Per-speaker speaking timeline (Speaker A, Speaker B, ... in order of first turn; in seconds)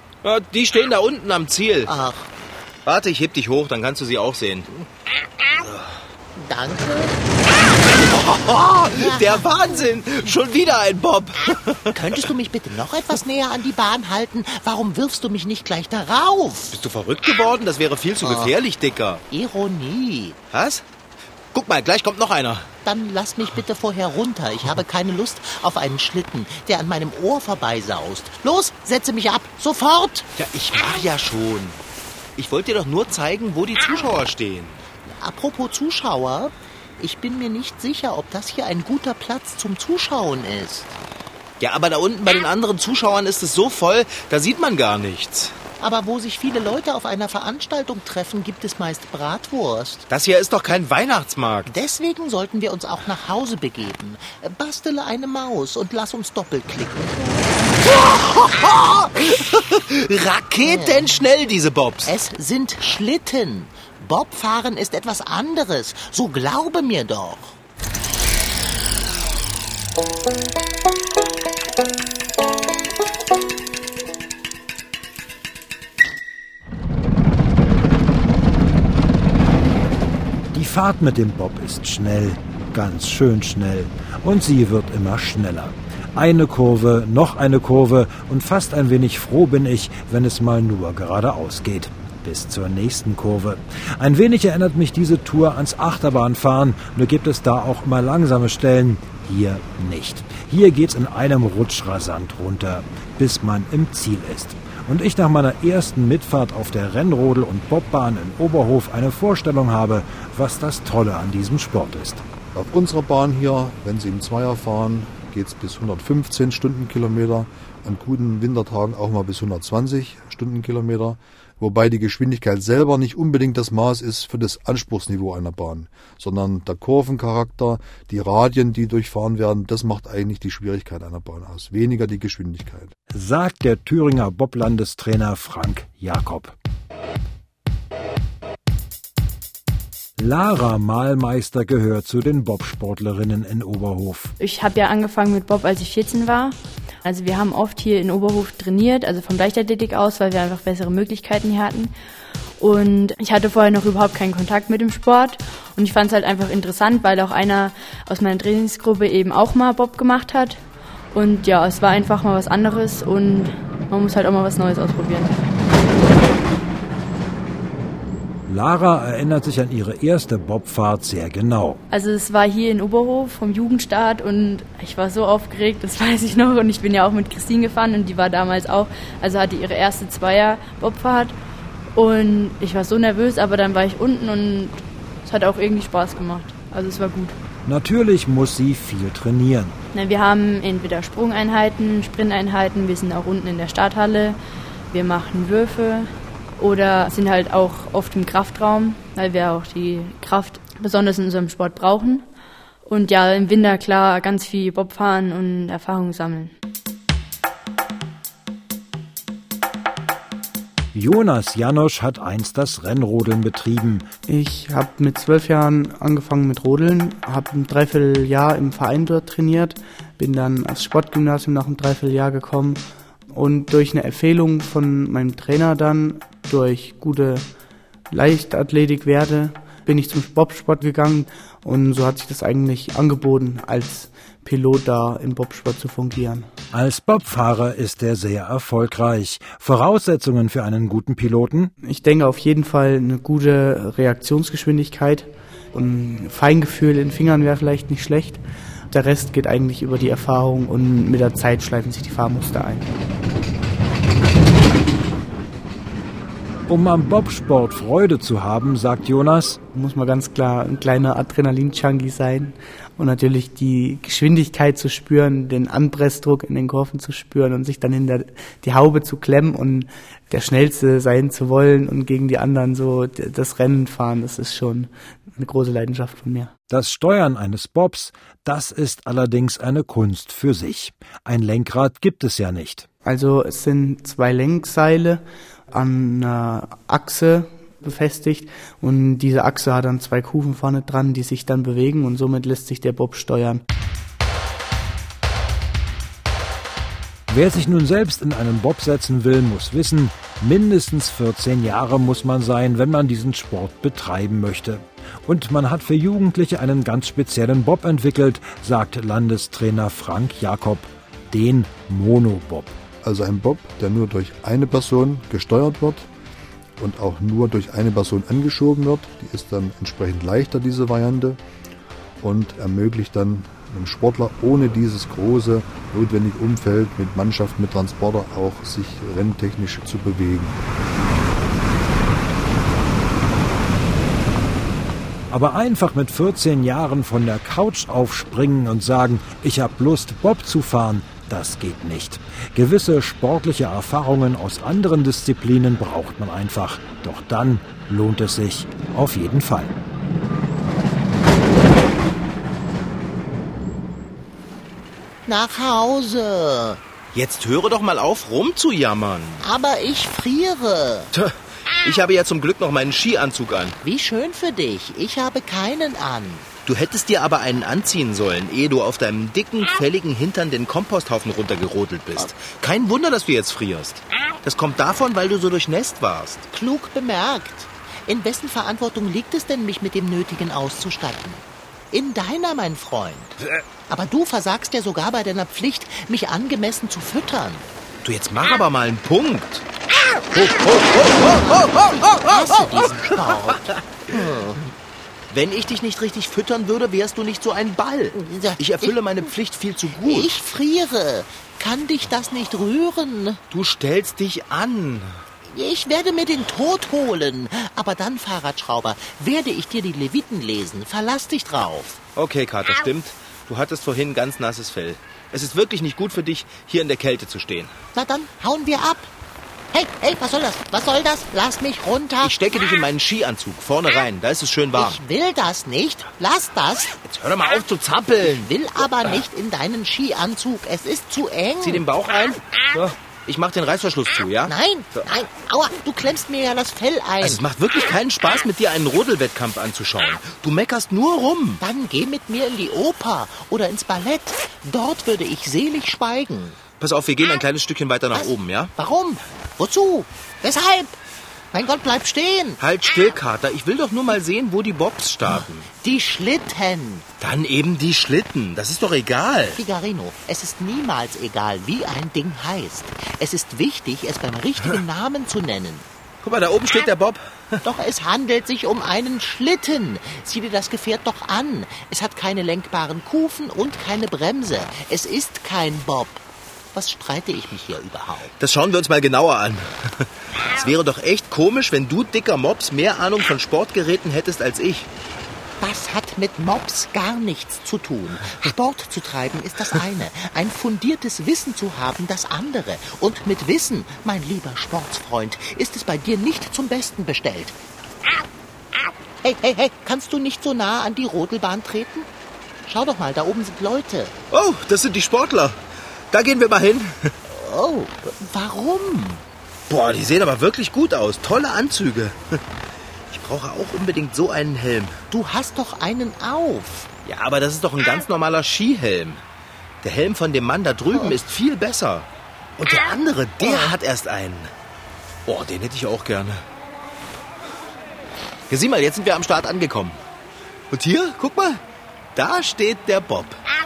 Speaker A: 0.2-1.9, 2.9-4.7, 7.9-12.3, 16.7-19.2, 20.5-20.8, 21.5-22.7, 30.4-31.8, 32.4-34.8, 41.6-45.6, 50.1-51.7, 57.9-62.1, 357.1-359.4, 361.1-363.8, 366.6-376.5, 388.0-389.6, 390.3-393.8, 395.3-400.3, 403.5-405.2, 412.1-417.8, 422.2-425.0, 427.0-428.4, 431.6-435.1, 437.2-441.6, 446.8-448.7, 452.6-455.7, 457.2-459.6, 466.2-467.6, 478.4-484.9, 504.3-505.6, 506.1-507.1, 509.7-512.4, 513.1-515.0, 517.0-519.2, 519.8-524.5, 525.2-526.4, 528.5-530.0, 530.7-531.6, 532.1-533.4
Speaker B: 1.9-2.3, 6.4-7.2, 8.9-9.5, 11.9-16.7, 18.2-18.5, 19.3-20.4, 22.9-30.3, 35.0-41.0, 45.8-50.0, 51.6-57.7, 60.6-61.2, 62.0-67.5, 355.2-356.8, 359.4-361.1, 363.8-366.5, 376.5-383.3, 383.9-387.6, 391.5-394.6, 398.1-399.0, 400.0-403.4, 405.5-412.0, 417.9-419.1, 419.7-422.3, 424.8-426.9, 428.2-431.8, 434.5-437.4, 441.6-446.6, 448.1-451.0, 451.5-452.6, 455.7-457.0, 459.6-465.9, 467.6-478.3, 485.6-497.6, 499.2-502.1, 502.7-504.1, 507.2-509.2, 515.1-516.9, 523.4-523.7
Speaker C: 80.5-112.2, 133.1-136.5, 140.2-144.3, 168.5-171.8, 187.6-189.8, 210.9-214.1, 236.7-241.7, 256.7-259.6, 276.7-282.9, 297.3-312.8, 335.3-349.8
Speaker D: 112.5-132.9, 313.0-316.1, 316.8-321.4, 322.2-330.6
Speaker E: 144.4-151.9, 152.6-160.6, 161.1-165.5, 171.9-181.3, 182.0-187.4, 189.9-194.4, 194.9-202.2, 202.9-206.5
Speaker F: 214.3-227.5, 228.1-236.5, 241.8-252.9, 259.7-276.5, 283.0-293.6